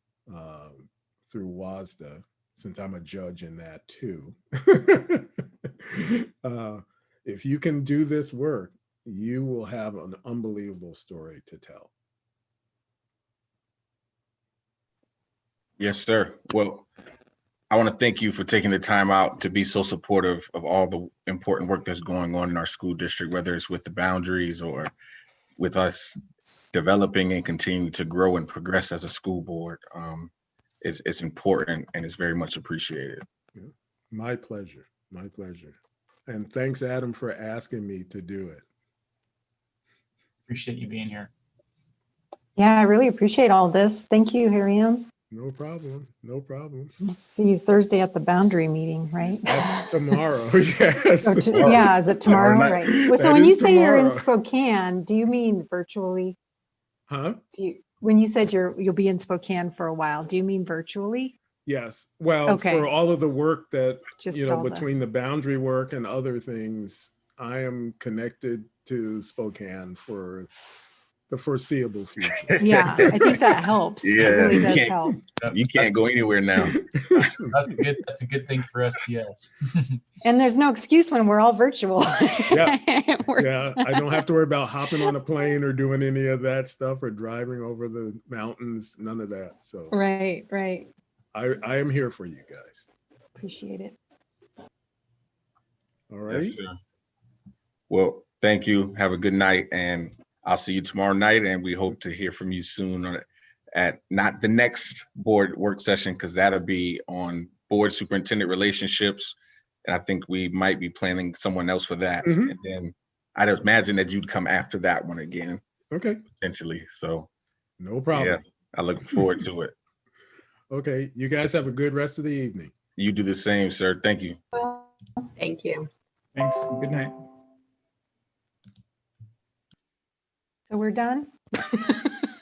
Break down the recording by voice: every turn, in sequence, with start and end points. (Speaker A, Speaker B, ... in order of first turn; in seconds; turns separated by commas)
Speaker A: 0.3-11.9, Speaker B: 15.8-16.9, Speaker B: 17.7-24.9, Speaker B: 25.6-26.2, Speaker B: 26.7-30.3, Speaker B: 30.8-33.2, Speaker A: 33.5-38.6, Speaker C: 40.5-41.3, Speaker D: 42.6-45.1, Speaker A: 45.3-47.0, Speaker D: 47.0-50.1, Speaker A: 49.5-54.3, Speaker D: 51.2-56.4, Speaker B: 51.5-52.9, Speaker A: 57.1-57.4, Speaker D: 57.5-61.3, Speaker A: 61.6-70.5, Speaker D: 62.5-62.9, Speaker D: 64.2-64.8, Speaker A: 71.3-73.3, Speaker B: 72.6-73.3, Speaker D: 72.6-75.2, Speaker B: 74.0-77.2, Speaker C: 75.3-76.0, Speaker A: 76.6-77.1, Speaker C: 77.1-80.0, Speaker D: 80.2-84.2, Speaker A: 82.5-82.8, Speaker A: 83.3-90.0, Speaker D: 89.9-90.9, Speaker A: 91.3-92.9, Speaker D: 93.4-94.0, Speaker A: 96.1-96.6, Speaker B: 96.3-96.8, Speaker B: 97.9-115.6, Speaker A: 112.2-112.5, Speaker A: 115.9-116.2, Speaker B: 116.4-117.3, Speaker A: 117.8-118.4, Speaker B: 118.1-119.7, Speaker A: 120.7-122.7, Speaker B: 123.0-124.4, Speaker D: 124.5-124.8, Speaker D: 125.4-125.7, Speaker C: 126.3-127.1, Speaker D: 130.7-132.3